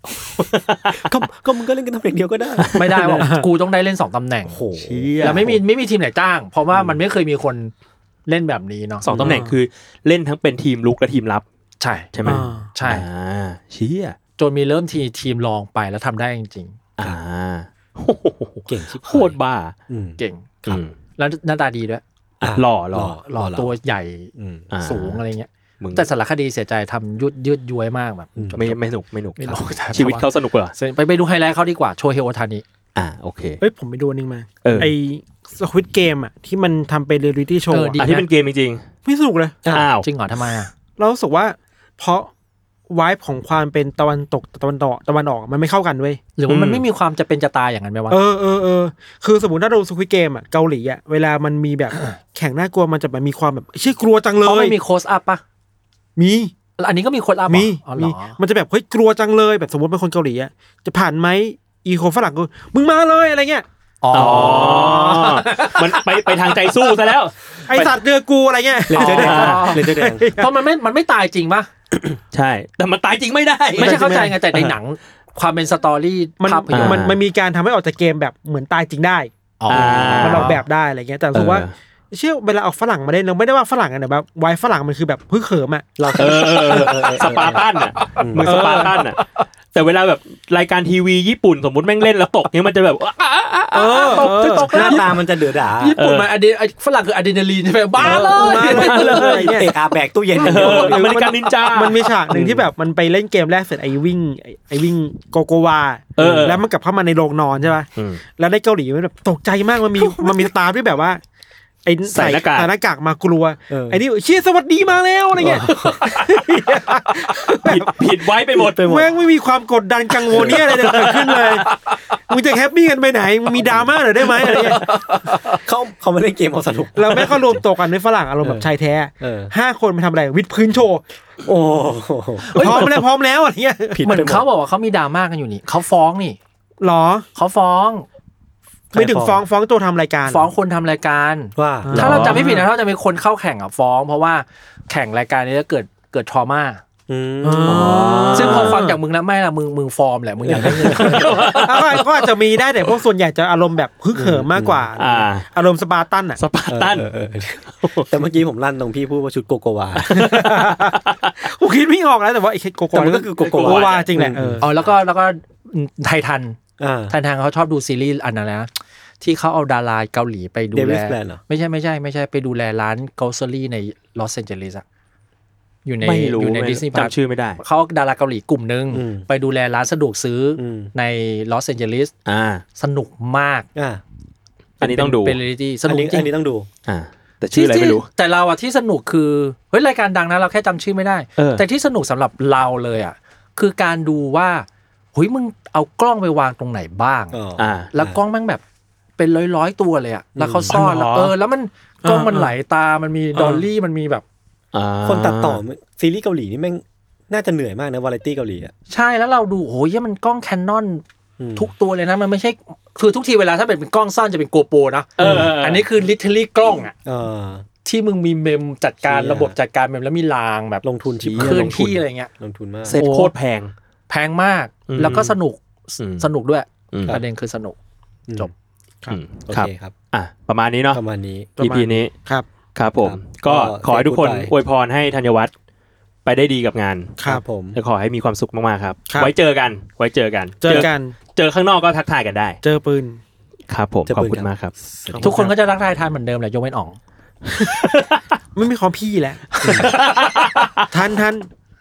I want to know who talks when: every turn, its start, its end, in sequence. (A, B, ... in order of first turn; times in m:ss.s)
0:00.4-0:03.4 A
0:00.5-0:01.1 B
0:02.7-0:04.6 C
0:04.5-0:05.6 A
0:04.8-0:05.5 B
0:05.2-0:07.7 C
0:06.7-0:07.0 A
0:08.3-0:09.1 C
0:09.0-0:11.4 B
0:09.1-0:09.4 A
0:09.2-0:09.6 D
0:11.8-0:12.1 C
0:12.1-0:14.2 B
0:12.2-0:12.7 D
0:12.7-0:13.1 C
0:14.4-0:16.8 C
0:17.0-0:19.8 B
0:18.7-0:19.4 A
0:19.9-0:20.8 A
0:20.2-0:20.5 C
0:20.6-0:20.9 B
0:21.2-0:22.0 C
0:22.4-0:23.8 A
0:22.5-0:23.2 B
0:23.2-0:24.3 C
0:24.4-0:24.7 A
0:24.7-0:25.2 B
0:24.8-0:28.7 C
0:25.8-0:26.1 B
0:28.4-0:28.8 A
0:28.5-0:30.7 B
0:29.4-0:32.6 C
0:33.0-0:33.6 B
0:33.6-0:38.0 D
0:34.6-0:34.9 B
0:37.7-0:38.3 C
0:38.0-0:38.8 B
0:39.0-0:39.6 D
0:39.6-0:39.9 A
0:39.7-0:40.1 B
0:40.0-0:40.7 C
0:41.0-0:42.3 D
0:42.9-0:46.2 D
0:46.4-0:48.2 C
0:46.5-0:46.8 B
0:48.1-0:54.8 D
0:54.4-0:55.4 C
0:56.2-0:56.5 D
0:56.8-0:58.4 C
0:57.5-1:03.6 D
1:04.0-1:05.7 C
1:04.1-1:07.9 B
1:04.2-1:05.8 D
1:07.7-1:10.5 D
1:08.9-1:10.3 A
1:08.9-1:11.7 C
1:09.1-1:09.7 B
1:12.0-1:14.7 B
1:13.8-1:17.1 C
1:13.8-1:14.4 D
1:16.4-1:25.9 D
1:16.7-1:17.2 B
1:19.6-1:20.6 C
1:19.7-1:20.5 B
1:19.9-1:20.2 A
1:21.3-1:21.7 B
1:26.0-1:28.8 A
1:26.2-1:29.2 B
1:28.4-1:29.1 D
1:29.7-1:34.7 B
1:33.7-1:35.0 D
1:34.0-1:35.2 C
1:34.7-1:36.0 A
1:35.8-1:39.2 C
1:36.0-1:36.3 B
1:38.0-1:39.7 D
1:38.1-1:39.6 B
1:38.1-1:41.1 A
1:40.4-1:51.2 D
1:40.4-1:42.5 B
1:42.3-1:42.6 A
1:46.2-1:46.6 B
1:46.2-1:46.5 A
1:48.0-1:48.2 B
1:51.8-1:58.0 D
1:52.1-1:52.7 B
1:53.7-1:54.0 A
1:55.4-1:55.7 A
1:57.6-1:59.0 B
1:58.7-2:01.7 D
1:58.8-1:59.1 A
2:00.3-2:00.9 A
2:00.3-2:01.6 B
2:02.3-2:04.8 D
2:03.5-2:04.0 A
2:04.5-2:05.6 C
2:05.5-2:07.6 A
2:07.0-2:11.0 D
2:08.4-2:09.5 A
2:11.4-2:13.0 A
2:12.5-2:12.9 C
2:12.5-2:14.3 D
2:13.9-2:14.5 A
2:14.0-2:16.4 C
2:16.8-2:17.3 D
2:17.4-2:18.1 C
2:18.9-2:19.4 A
2:18.9-2:20.5 D
2:20.3-2:26.8 C
2:21.6-2:22.4 A
2:21.8-2:22.7 D
2:21.9-2:22.5 B
2:27.1-2:28.7 A
2:27.4-2:29.0 D
2:27.6-2:28.8 B
2:28.3-2:31.6 C
2:30.4-2:31.4 A
2:30.9-2:32.0 B
2:31.4-2:36.4 D
2:34.1-2:34.9 A
2:35.0-2:35.5 B
2:36.4-2:37.1 B
2:36.7-2:40.4 A
2:37.8-2:38.1 B
2:40.1-2:44.9 D
2:40.2-2:41.3 B
2:42.9-2:44.7 A
2:43.4-2:44.1 B
2:44.6-2:46.6 C
2:46.8-2:47.2 A
2:47.1-2:48.7 C
2:49.2-2:54.8 C
2:50.7-2:51.4 A
2:55.8-3:02.1 C
2:56.0-2:57.6 B
2:58.9-2:59.3 A
3:00.6-3:00.9 A
3:02.3-3:02.6 B
3:02.8-3:03.7 C
3:03.8-3:04.0 A
3:04.8-3:05.4 B
3:04.8-3:06.3 C
3:05.9-3:06.7 A
3:06.8-3:08.1 B
3:07.5-3:17.4 C
3:11.4-3:11.6 B
3:17.3-3:18.2 A
3:17.6-3:17.9 B
3:17.9-3:18.6 C
3:19.2-3:24.2 C
3:20.4-3:20.8 A
3:20.7-3:21.3 B
3:22.0-3:22.5 D
3:23.4-3:23.6 D
3:24.7-3:25.6 B
3:25.0-3:28.7 A
3:28.9-3:31.0 C
3:31.4-3:31.7 A
3:31.6-3:36.9 C
3:35.2-3:35.8 B
3:35.2-3:35.5 A
3:37.0-3:37.6 A
3:37.8-3:40.8 C
3:39.0-3:39.6 A
3:40.8-3:41.8 A
3:41.2-3:42.0 B
3:41.4-3:42.3 C
3:42.4-3:43.0 A
3:42.9-3:43.7 B
3:42.9-3:43.3 C
3:44.1-3:47.8 C
3:44.9-3:45.4 B
3:46.0-3:46.3 B
3:46.9-3:47.2 B
3:49.1-3:51.0 B
3:49.5-3:49.9 A
3:50.9-3:51.5 A
3:51.6-3:52.5 D
3:51.6-3:52.1 B
3:52.8-3:55.5 B
3:53.0-3:54.5 A
3:56.2-3:57.2 B
3:57.2-3:57.8 A
3:57.8-4:02.6 B
4:00.6-4:01.1 D
4:02.6-4:03.2 D
4:03.7-4:04.7 B
4:04.0-4:05.6 A
4:05.1-4:05.5 D
4:05.2-4:07.0 C
4:07.6-4:08.2 B
4:08.6-4:09.9 D
4:09.6-4:09.9 A
4:09.7-4:10.0 C
4:09.9-4:10.8 B
4:10.9-4:11.5 D